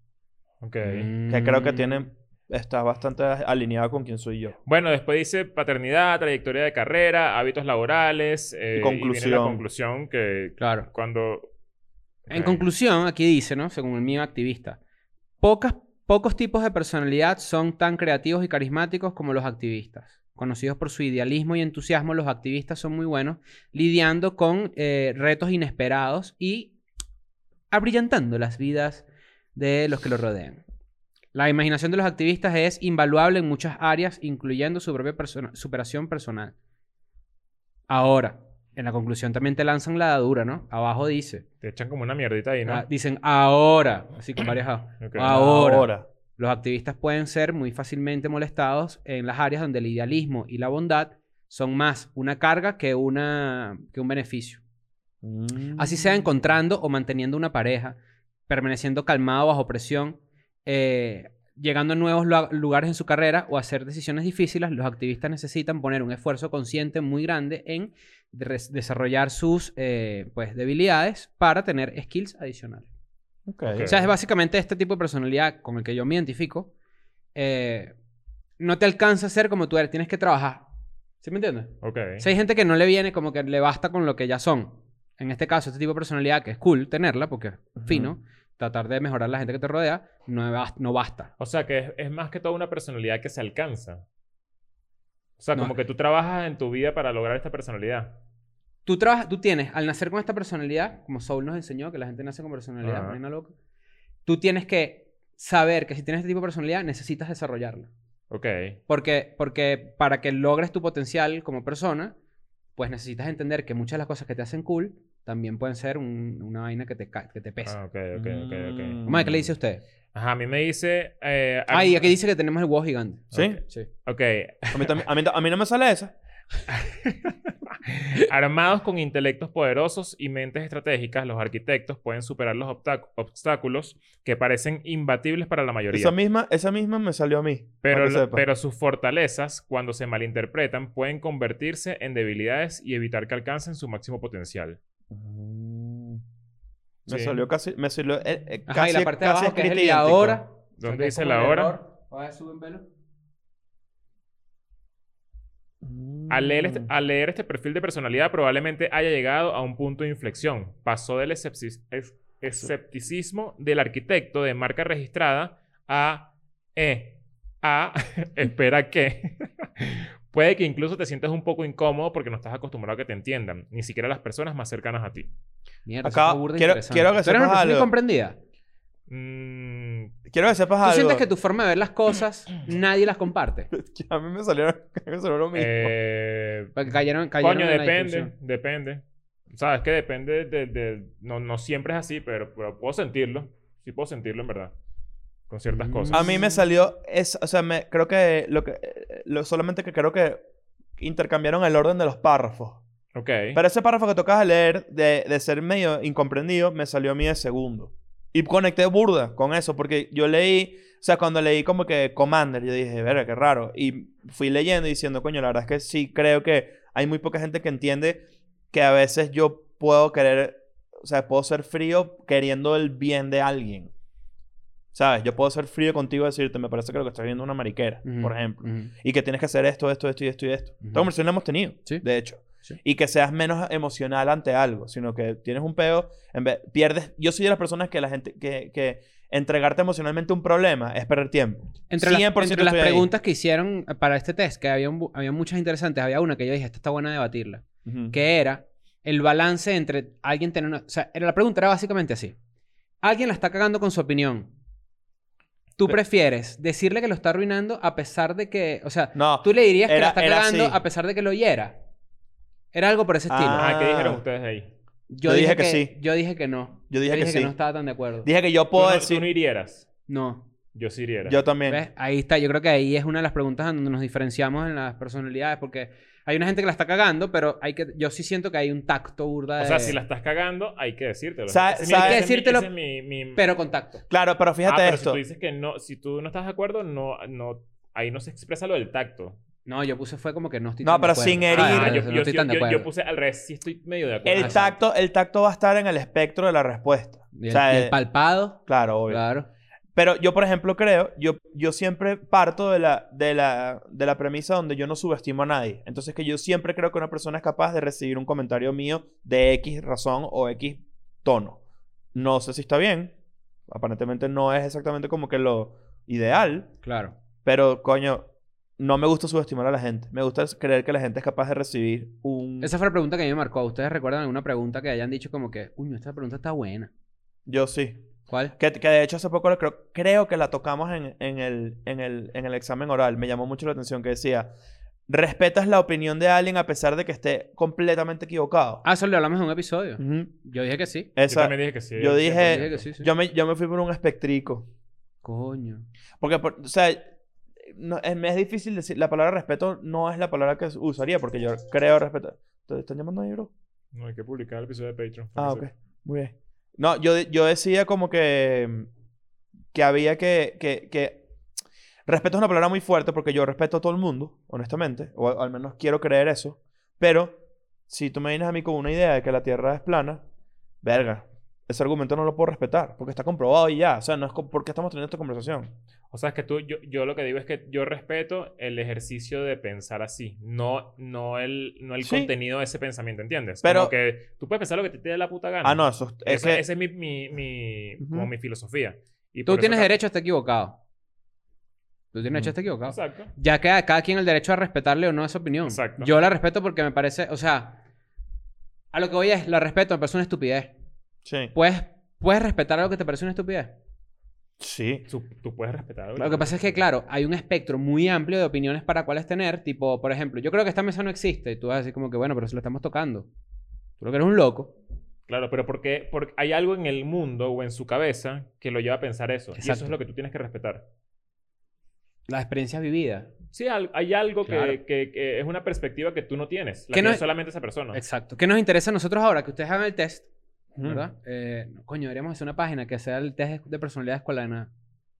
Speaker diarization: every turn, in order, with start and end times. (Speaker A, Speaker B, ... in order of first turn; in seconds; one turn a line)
Speaker A: 0.6-1.1
Speaker B: 0.8-2.1
Speaker C: 1.3-4.6
Speaker A: 4.7-11.5
Speaker C: 8.7-9.6
Speaker B: 10.6-10.9
Speaker A: 12.3-12.6
Speaker B: 12.3-14.8
Speaker B: 15.4-26.7
Speaker B: 27.7-30.6
Speaker B: 31.3-36.5
Speaker B: 37.9-41.4
Speaker A: 41.6-42.8
Speaker B: 42.6-54.6
Speaker A: 45.0-45.4
Speaker C: 45.2-46.0
Speaker C: 55.2-56.3
Speaker B: 55.8-72.9
Speaker C: 73.5-73.9
Speaker A: 73.7-74.1
Speaker B: 73.8-76.7
Speaker B: 77.3-77.9
Speaker B: 78.6-80.6
Speaker B: 81.2-91.3
Speaker A: 81.8-82.2
Speaker C: 87.8-88.1
Speaker A: 91.4-94.0
Speaker A: 95.4-98.2
Speaker B: 98.8-103.5
Speaker A: 102.8-103.2
Speaker B: 104.2-107.9
Speaker A: 108.3-108.8
Speaker B: 108.9-112.2
Speaker B: 112.8-117.8
Speaker A: 117.7-119.0
Speaker C: 118.1-119.5
Speaker B: 119.0-119.8
Speaker A: 120.1-122.1
Speaker B: 121.7-123.9
Speaker A: 123.3-124.9
Speaker C: 123.3-123.6
Speaker C: 124.7-126.1
Speaker A: 126.7-136.1
Speaker C: 135.9-138.4
Speaker A: 137.8-144.8
Speaker C: 145.1-146.2
Speaker A: 147.1-147.4
Speaker C: 147.1-150.4
Speaker B: 148.7-152.9
Speaker A: 150.8-151.8
Speaker C: 155.8-156.9
Speaker A: 156.3-175.3
Speaker B: 175.8-178.4
Speaker C: 176.0-177.9
Speaker A: 179.1-180.1
Speaker C: 180.3-181.2
Speaker B: 180.8-183.7
Speaker C: 183.7-185.9
Speaker A: 185.5-186.8
Speaker B: 186.7-188.3
Speaker A: 187.4-194.7
Speaker A: 195.5-196.4
Speaker B: 195.7-196.6
Speaker C: 196.1-200.4
Speaker C: 201.0-202.8
Speaker A: 203.1-203.6
Speaker C: 203.5-223.9
Speaker C: 224.9-243.1
Speaker B: 228.0-228.9
Speaker B: 230.8-231.1
Speaker B: 241.9-252.3
Speaker C: 247.8-248.2
Speaker B: 253.0-254.5
Speaker B: 255.8-261.8
Speaker C: 259.1-260.8
Speaker B: 262.7-263.6
Speaker C: 263.3-264.2
Speaker A: 263.6-264.7
Speaker B: 265.1-268.3
Speaker C: 265.2-265.9
Speaker C: 266.9-267.5
Speaker C: 268.2-269.2
Speaker A: 268.7-269.9
Speaker B: 270.1-270.5
Speaker A: 270.7-271.4
Speaker C: 271.2-271.8
Speaker B: 271.7-280.0
Speaker A: 279.6-283.4
Speaker C: 281.5-282.2
Speaker B: 281.9-282.7
Speaker B: 283.3-284.0
Speaker C: 284.1-285.2
Speaker A: 284.6-289.4
Speaker B: 289.6-292.9
Speaker C: 290.8-292.0
Speaker A: 291.5-294.8
Speaker C: 294.2-297.9
Speaker B: 297.3-299.5
Speaker C: 298.6-299.2
Speaker C: 299.9-311.6
Speaker C: 312.1-313.1
Speaker C: 313.7-316.7
Speaker B: 316.8-317.2
Speaker C: 317.4-318.3
Speaker C: 318.8-322.7
Speaker B: 322.6-326.9
Speaker C: 327.4-334.5
Speaker B: 328.3-328.5
Speaker C: 335.1-338.8
Speaker B: 338.8-341.1
Speaker C: 340.0-340.3
Speaker C: 341.1-344.7
Speaker A: 341.3-342.8
Speaker B: 342.4-343.1
Speaker B: 345.2-345.9
Speaker C: 346.2-347.1
Speaker C: 347.6-353.5
Speaker A: 353.9-355.7
Speaker C: 355.4-358.9
Speaker C: 359.7-361.2
Speaker C: 362.1-367.4
Speaker C: 367.9-370.2
Speaker C: 370.8-375.7
Speaker A: 376.1-390.0
Speaker C: 382.0-382.3
Speaker C: 383.6-383.9
Speaker C: 385.6-386.6
Speaker C: 388.0-388.3
Speaker B: 389.5-390.8
Speaker B: 392.1-397.8
Speaker A: 392.9-393.3
Speaker A: 395.6-396.1
Speaker B: 398.9-400.7
Speaker C: 401.2-401.5
Speaker B: 401.5-403.8
Speaker C: 404.6-405.0
Speaker A: 405.1-406.8
Speaker B: 406.2-413.3
Speaker B: 414.0-414.7
Speaker A: 415.3-420.9
Speaker B: 419.6-420.0
Speaker B: 422.3-423.3
Speaker A: 423.5-428.0
Speaker B: 424.4-424.8
Speaker B: 426.9-427.2
Speaker B: 427.9-430.3
Speaker C: 430.7-431.0
Speaker B: 430.8-434.7